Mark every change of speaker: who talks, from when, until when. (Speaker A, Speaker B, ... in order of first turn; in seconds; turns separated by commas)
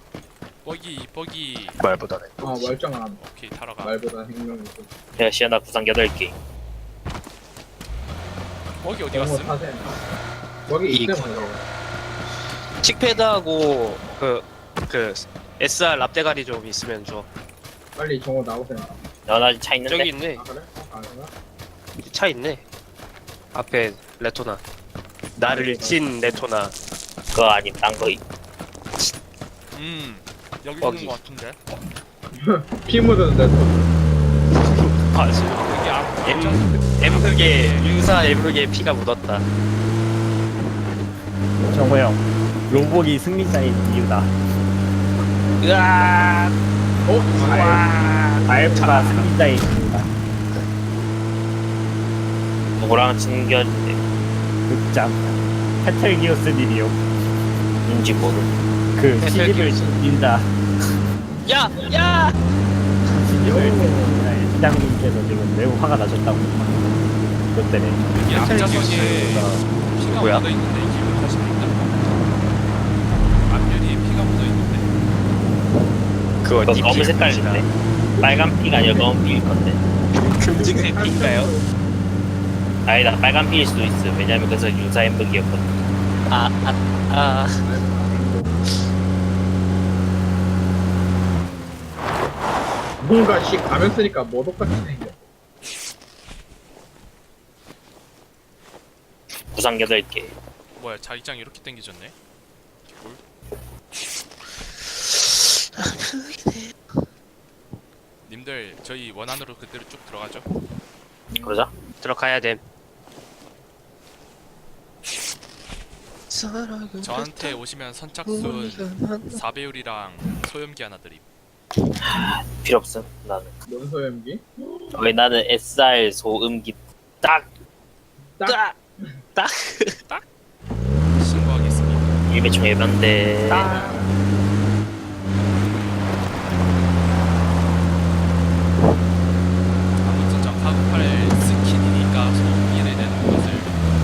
Speaker A: 0.6-1.8, Speaker B: 1.8-2.7, Speaker C: 2.4-3.2, Speaker A: 3.2-4.0, Speaker C: 3.8-4.9, Speaker D: 5.2-6.4, Speaker A: 8.8-9.6, Speaker C: 9.1-10.0, Speaker C: 10.7-11.6, Speaker B: 10.9-11.5, Speaker B: 12.8-17.3, Speaker C: 17.9-19.0, Speaker D: 19.2-20.1, Speaker B: 19.9-20.4, Speaker C: 20.3-21.3, Speaker B: 22.0-22.6, Speaker B: 23.5-24.6, Speaker B: 25.4-26.7, Speaker C: 25.4-26.4, Speaker D: 27.3-28.2, Speaker A: 29.7-31.6, Speaker B: 30.8-31.2, Speaker C: 32.3-33.9, Speaker B: 34.5-35.6, Speaker A: 35.5-37.9, Speaker B: 36.2-39.4, Speaker E: 41.7-44.3, Speaker B: 45.6-46.5, Speaker C: 47.0-49.0, Speaker B: 47.3-49.2, Speaker E: 48.5-50.1, Speaker D: 52.7-54.0, Speaker E: 54.7-57.0, Speaker D: 57.9-58.5, Speaker E: 59.0-60.5, Speaker B: 59.2-60.0, Speaker B: 61.4-62.4, Speaker E: 63.0-68.1, Speaker C: 63.4-64.3, Speaker A: 68.2-71.9, Speaker B: 68.3-70.5, Speaker A: 73.4-74.9, Speaker B: 76.4-77.7, Speaker D: 76.7-77.7, Speaker C: 78.2-79.1, Speaker D: 78.2-79.8, Speaker B: 80.2-81.5, Speaker C: 80.5-81.7, Speaker D: 82.8-85.9, Speaker B: 86.3-87.7, Speaker C: 87.6-88.7, Speaker C: 93.0-95.2, Speaker D: 99.5-100.3, Speaker A: 100.8-102.1, Speaker A: 102.8-103.2, Speaker B: 105.0-107.0, Speaker A: 108.2-110.5, Speaker D: 111.4-111.7, Speaker B: 112.0-112.6, Speaker B: 116.3-117.6, Speaker A: 117.0-121.2, Speaker B: 118.2-119.4, Speaker D: 122.0-123.5, Speaker C: 123.7-124.4, Speaker D: 124.9-127.5, Speaker C: 128.4-129.2, Speaker B: 128.4-128.8, Speaker B: 129.3-130.2, Speaker A: 131.1-132.2, Speaker D: 132.3-133.7, Speaker B: 133.5-134.0, Speaker C: 133.6-134.1, Speaker A: 135.6-136.7, Speaker A: 140.0-143.8